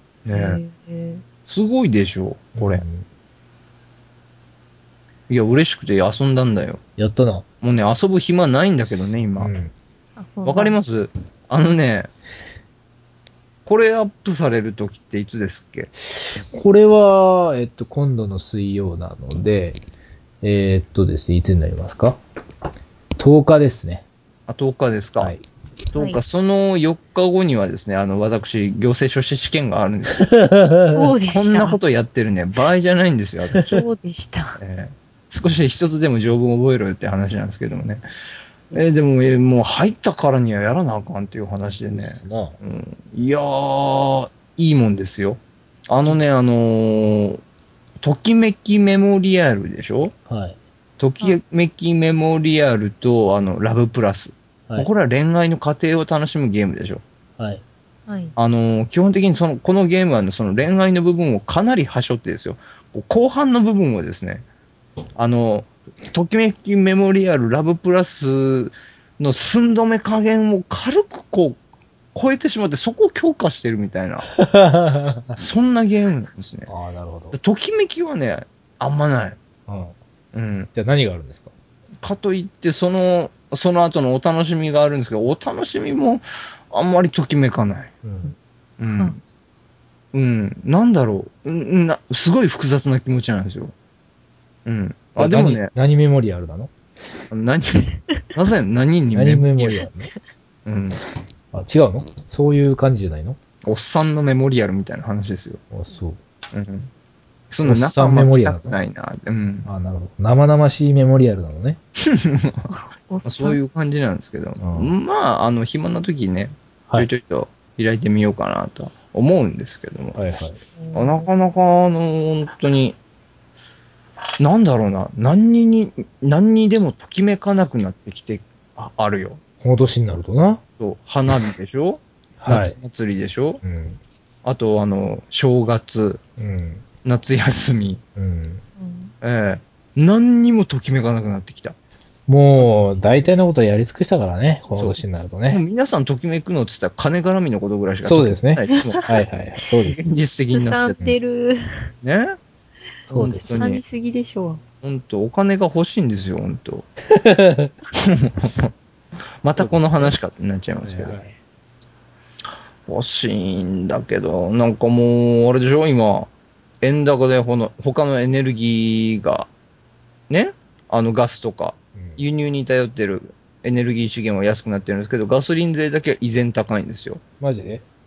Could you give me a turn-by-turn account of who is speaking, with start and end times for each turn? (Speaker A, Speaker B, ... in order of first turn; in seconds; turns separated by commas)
Speaker A: 0.3-0.6, Speaker B: 0.3-1.2, Speaker A: 1.5-2.8, Speaker C: 2.6-3.0, Speaker A: 5.3-6.8, Speaker C: 7.0-7.4, Speaker A: 7.6-9.5, Speaker C: 9.4-9.7, Speaker B: 10.2-10.8, Speaker A: 10.4-12.1, Speaker A: 13.7-15.9, Speaker C: 16.1-19.8, Speaker C: 20.4-22.2, Speaker C: 23.2-24.1, Speaker A: 24.5-25.4, Speaker A: 25.9-30.3, Speaker C: 30.2-31.0, Speaker B: 30.8-31.8, Speaker A: 31.3-33.8, Speaker B: 33.7-34.6, Speaker A: 34.6-38.0, Speaker A: 38.7-47.4, Speaker C: 41.7-42.6, Speaker A: 48.0-50.1, Speaker C: 50.3-50.6, Speaker A: 51.0-57.0, Speaker B: 58.1-58.4, Speaker A: 58.4-64.5, Speaker A: 65.2-71.6, Speaker A: 72.1-74.3, Speaker C: 74.4-75.3, Speaker A: 75.4-76.7, Speaker C: 76.7-77.3, Speaker A: 77.3-79.4, Speaker C: 79.7-79.9, Speaker A: 80.3-80.7, Speaker C: 80.8-81.5, Speaker A: 82.0-87.9, Speaker C: 88.0-88.3, Speaker A: 88.8-89.2, Speaker A: 90.1-93.7, Speaker A: 94.7-95.7, Speaker C: 95.2-97.3, Speaker A: 97.3-99.8, Speaker C: 99.1-100.1, Speaker A: 100.7-101.0, Speaker C: 101.5-103.4, Speaker A: 103.7-105.6, Speaker C: 105.7-106.2, Speaker A: 106.5-106.9, Speaker A: 107.5-109.7, Speaker C: 107.6-108.8, Speaker C: 109.7-111.8, Speaker A: 112.1-112.6, Speaker B: 112.7-113.6, Speaker A: 113.2-120.2, Speaker C: 114.6-114.9, Speaker C: 120.2-120.6, Speaker B: 120.8-121.3, Speaker A: 120.9-123.0, Speaker A: 124.4-129.4, Speaker C: 129.6-130.6, Speaker A: 130.8-133.6, Speaker C: 132.4-132.8, Speaker C: 133.6-134.0, Speaker A: 134.4-136.2, Speaker C: 136.4-136.8, Speaker A: 137.1-138.0, Speaker C: 138.2-138.6, Speaker B: 138.8-139.1, Speaker A: 139.2-141.8, Speaker C: 142.3-145.6, Speaker A: 144.7-149.0, Speaker C: 148.0-150.1, Speaker B: 148.9-149.2, Speaker A: 149.9-151.0, Speaker B: 150.5-151.9, Speaker A: 152.0-152.3, Speaker C: 153.1-153.6, Speaker A: 153.1-153.8, Speaker B: 153.3-154.6, Speaker A: 154.8-156.9, Speaker C: 157.2-157.7, Speaker A: 158.0-158.7, Speaker A: 159.4-161.2, Speaker C: 159.5-160.1, Speaker C: 160.8-161.3, Speaker A: 162.9-166.3, Speaker A: 166.8-169.5, Speaker A: 170.3-177.2, Speaker C: 172.0-172.2, Speaker C: 177.4-177.8